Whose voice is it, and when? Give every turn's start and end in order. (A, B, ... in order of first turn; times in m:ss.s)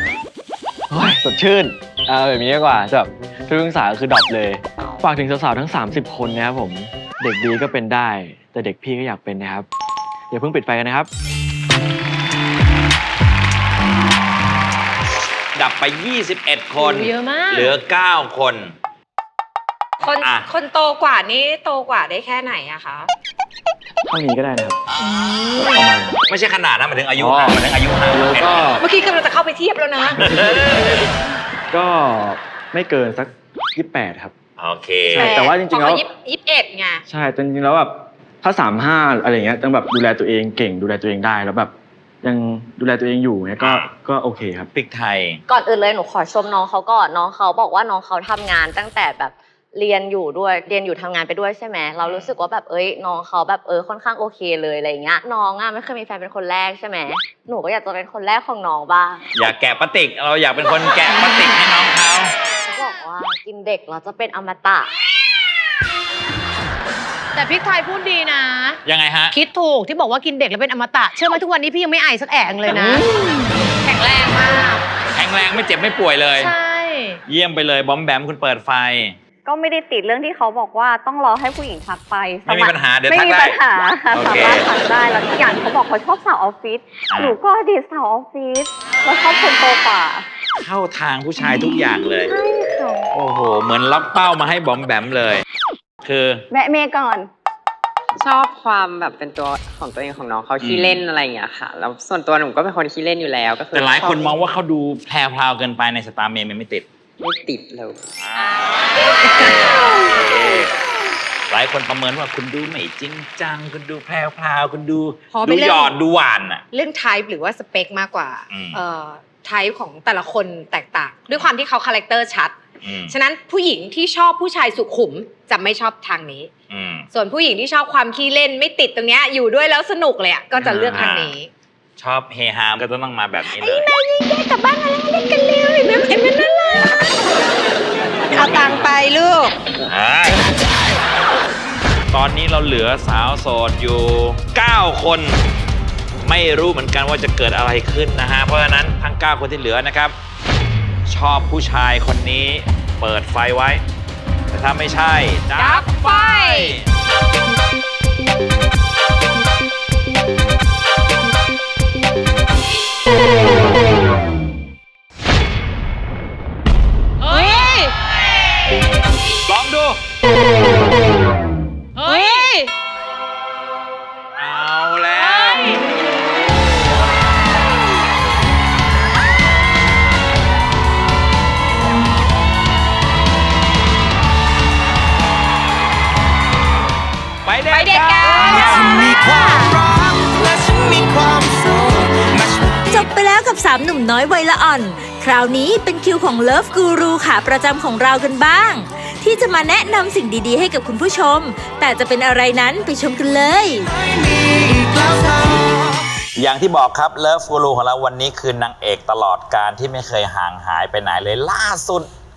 0:00.9-0:09.7 A
0:10.3-0:11.1 A
0:15.5-0:18.7 B
0:16.8-0:17.7 C
0:20.0-0:23.1 D
0:20.2-0:20.5 B
0:24.1-0:24.8 A
0:25.5-0:26.2 A
0:26.3-0:28.8 B
0:27.2-0:28.8 A
0:28.8-0:30.5 D
0:30.2-0:31.1 A
0:30.4-0:31.0 B
0:31.7-0:34.3 A
0:34.6-0:35.3 B
0:35.1-0:36.0 A
0:35.1-0:37.0 D
0:37.1-0:44.7 A
0:43.6-0:43.9 B
0:44.7-0:45.4 B
0:45.5-0:59.2 E
0:52.0-0:52.3 B
0:59.3-1:02.3 B
1:02.7-1:04.9 E
1:07.3-1:08.8 C
1:08.8-1:09.4 B
1:09.3-1:13.1 C
1:13.8-1:14.8 C
1:15.1-1:16.5 B
1:16.4-1:17.2 C
1:17.3-1:19.2 B
1:19.4-1:28.7 F
1:22.4-1:24.7 B
1:27.1-1:27.4 B
1:29.2-1:30.2 F
1:30.6-1:32.3 B
1:33.1-1:35.4 B
1:36.0-1:36.4 B
1:36.5-1:37.2 F
1:38.2-1:44.3 G
1:40.6-1:41.0 B
1:43.7-1:46.8 B
1:47.2-1:48.0 G
1:48.3-1:50.7 B
1:51.5-1:56.6 B
1:55.3-1:55.9 D
1:56.7-2:02.5 D
1:58.5-1:58.8 B
2:02.8-2:03.2 B
2:03.1-2:06.5 D
2:06.7-2:07.1 B
2:07.1-2:11.5 D
2:10.6-2:11.4 B
2:12.0-2:13.9 B
2:13.6-2:17.3 D
2:18.3-2:19.5 D
2:19.9-2:20.4 B
2:22.1-2:25.4 B
2:26.2-2:30.1 B
2:31.1-2:33.8 B
2:34.5-2:36.9 B
2:35.6-2:36.7 D
2:47.2-2:47.9 C
2:49.5-2:50.0 B
2:52.0-2:52.7 C
2:54.4-2:55.8 B
2:55.1-2:55.8 C
3:07.4-3:08.9 B
3:07.7-3:09.8 D
3:12.9-3:23.9 H
3:24.8-3:25.2 H
3:26.4-3:32.1 B